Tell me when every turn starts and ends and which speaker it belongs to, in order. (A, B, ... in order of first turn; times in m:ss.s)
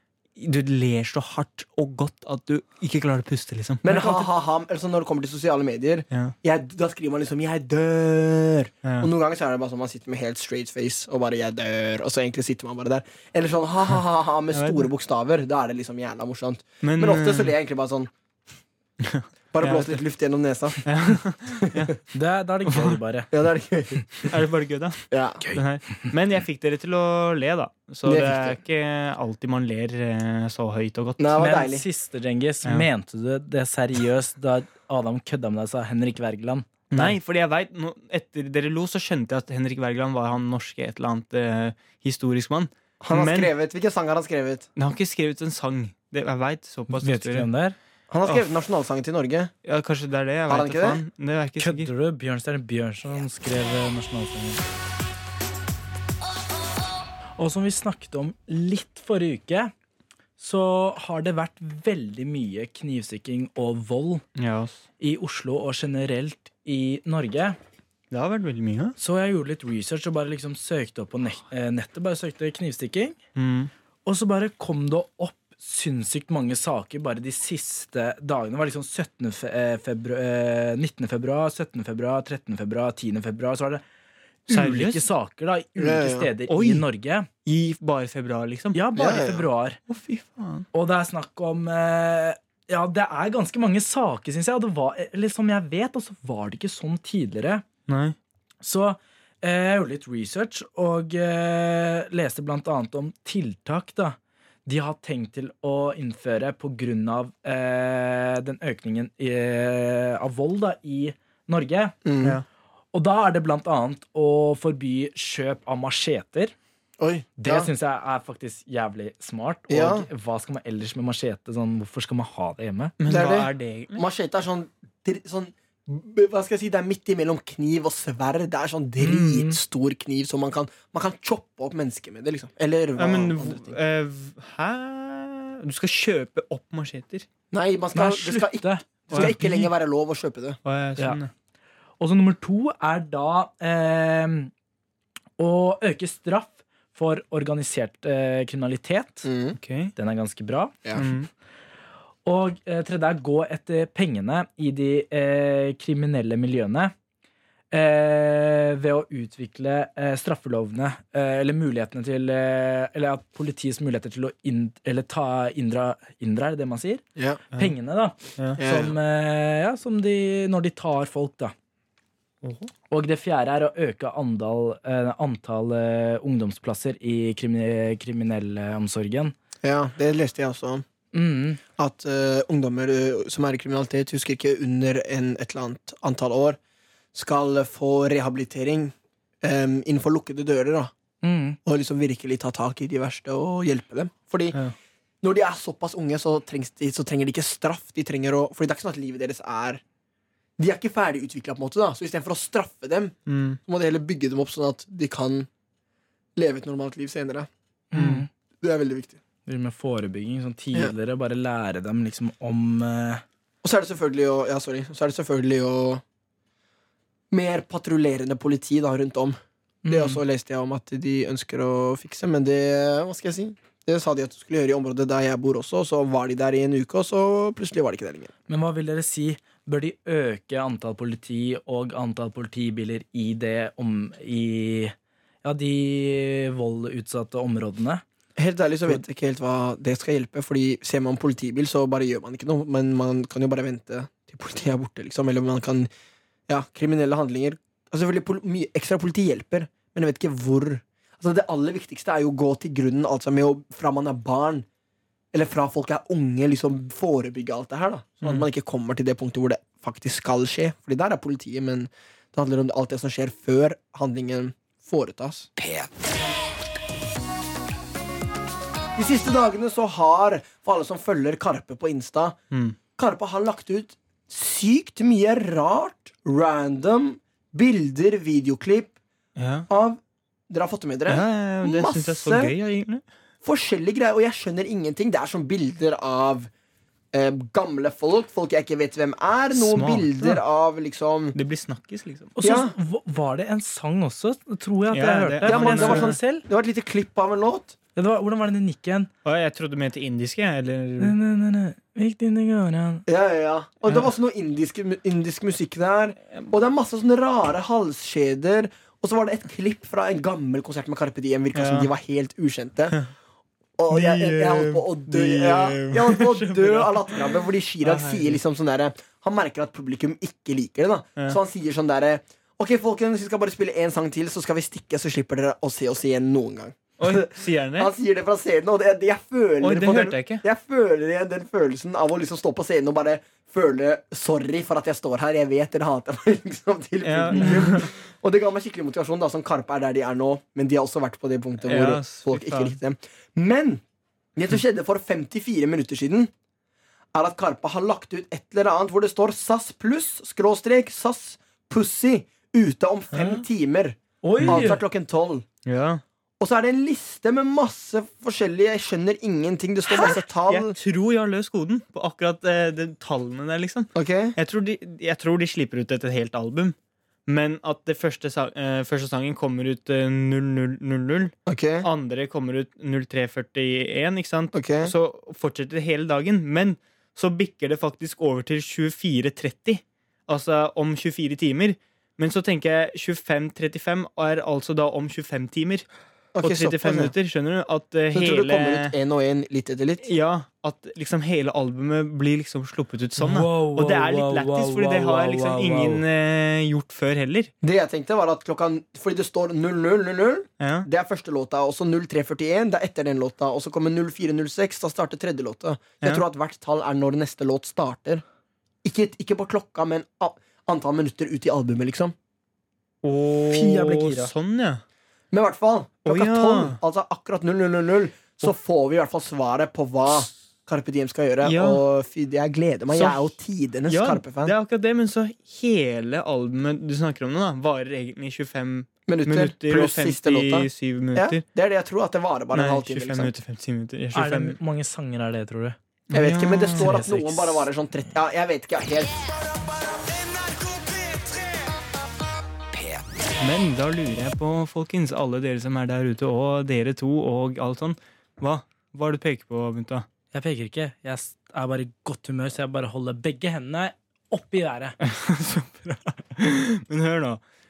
0:00.4-0:04.3 A
0:03.8-0:18.1 B
0:08.8-0:09.1 A
0:14.5-0:14.9 A
0:16.8-0:17.5 A
0:19.0-0:20.0 A
0:19.5-0:20.8 B
0:20.8-0:22.0 A
0:21.6-0:21.9 B
0:22.1-0:23.3 C
0:22.6-0:23.0 A
0:23.3-0:24.3 B
0:24.2-0:31.2 A
0:25.1-0:25.4 B
0:25.4-0:26.1 C
0:28.0-0:28.6 B
0:31.2-0:31.8 B
0:31.4-0:37.2 C
0:36.9-0:43.5 A
0:43.0-0:44.7 B
0:44.8-0:47.5 A
0:46.9-0:47.8 C
0:48.1-0:49.5 B
0:49.6-0:51.9 A
0:50.5-0:51.0 B
0:51.6-0:54.6 C
0:57.4-0:59.7 C
1:00.4-1:04.2 C
1:04.4-1:04.8 A
1:05.0-1:07.6 C
1:08.1-1:08.9 A
1:09.0-1:13.2 C
1:13.4-1:13.7 A
1:14.0-1:23.8 C
1:24.5-1:27.3 C
1:24.5-1:25.0 A
1:25.8-1:26.3 B
1:26.5-1:26.8 A
1:27.4-1:28.8 A
1:28.7-1:29.8 C
1:29.0-1:29.4 B
1:29.9-1:30.6 A
1:30.7-1:37.6 C
1:37.9-1:38.1 A
1:38.6-1:52.0 C
1:52.0-1:52.4 B
1:52.9-1:56.5 C
1:57.0-1:57.7 B
1:57.4-2:03.0 C
1:59.7-2:00.1 B
2:03.0-2:04.0 A
2:03.1-2:13.7 B
2:09.0-2:09.6 C
2:13.0-2:17.3 A
2:17.5-2:20.6 B
2:17.9-2:19.7 C
2:20.6-2:21.3 A
2:22.0-2:24.5 C
2:25.4-2:29.3 C
2:29.2-2:29.6 B
2:29.6-2:29.9 A
2:30.0-2:30.8 C
2:30.9-2:31.3 A
2:32.2-2:36.9 C
2:37.7-2:51.5 C
2:47.2-2:47.4 B
2:48.6-2:48.9 B
2:52.4-2:52.7 A
2:52.9-2:59.3 C
2:59.6-3:00.8 B
3:01.1-3:01.6 C
3:01.8-3:06.6 B
3:07.1-3:10.9 B
3:11.2-3:11.6 C
3:11.6-3:14.6 B
3:15.2-3:19.8 B
3:20.6-3:25.5 B
3:23.3-3:23.6 A
3:26.4-3:27.5 B
3:27.9-3:28.3 C
3:27.9-3:28.2 A
3:28.6-3:29.2 B
3:29.4-3:33.2 C
3:33.6-3:36.0 B
3:37.3-3:39.4 B
3:39.8-3:40.2 C
3:39.9-3:48.3 B
3:48.5-3:58.0 C
3:58.4-4:05.9 B
4:06.5-4:14.6 B
4:15.3-4:25.5 B
4:18.2-4:18.5 A
4:29.0-4:32.4 B
4:32.5-4:32.8 A
4:33.0-4:38.9 B
4:39.4-4:39.7 A
4:39.7-4:42.5 B
4:41.1-4:43.0 A
4:43.4-4:46.5 B
4:47.1-4:51.4 B
4:49.5-4:50.4 A
4:51.3-4:52.4 A
4:52.4-4:56.4 C
4:52.4-4:52.7 B
4:54.9-4:56.2 A
4:55.4-4:57.8 B
4:58.0-4:59.1 C
4:59.2-5:01.2 A
5:01.0-5:03.0 C
5:03.0-5:13.0 B
5:11.5-5:11.9 A
5:13.8-5:43.8 B
5:13.9-5:18.4 A
5:27.0-5:27.9 A
5:29.6-5:30.4 A
5:37.0-5:37.9 A
5:41.6-5:42.8 A
5:44.4-5:46.3 B
5:47.1-5:55.4 B
5:53.1-5:53.4 A
5:54.2-5:54.8 C
5:54.4-5:54.7 A
5:55.6-5:56.0 A
5:56.4-6:00.8 B
5:59.9-6:06.8 A
6:03.9-6:04.4 B
6:07.3-6:25.8 A
6:11.4-6:11.9 B
6:14.5-6:14.9 B
6:26.3-6:27.1 B
6:26.4-6:28.9 A
6:28.1-6:30.1 B
6:30.0-6:37.5 A
6:33.2-6:36.0 C
6:37.6-6:48.2 B
6:40.6-6:40.9 A
6:48.8-6:52.1 B
6:53.0-6:54.8 A
6:53.4-6:54.3 C
6:55.3-7:04.5 B
6:56.0-6:56.8 A
7:01.4-7:01.8 A
7:02.9-7:03.3 A
7:03.9-7:11.4 A
7:09.1-7:13.3 B
7:12.5-7:14.6 A
7:14.1-7:15.8 C
7:16.1-7:17.1 A
7:16.1-7:19.2 B
7:16.7-7:17.6 C
7:23.4-7:30.1 A
7:30.3-7:35.0 C
7:35.0-7:37.4 A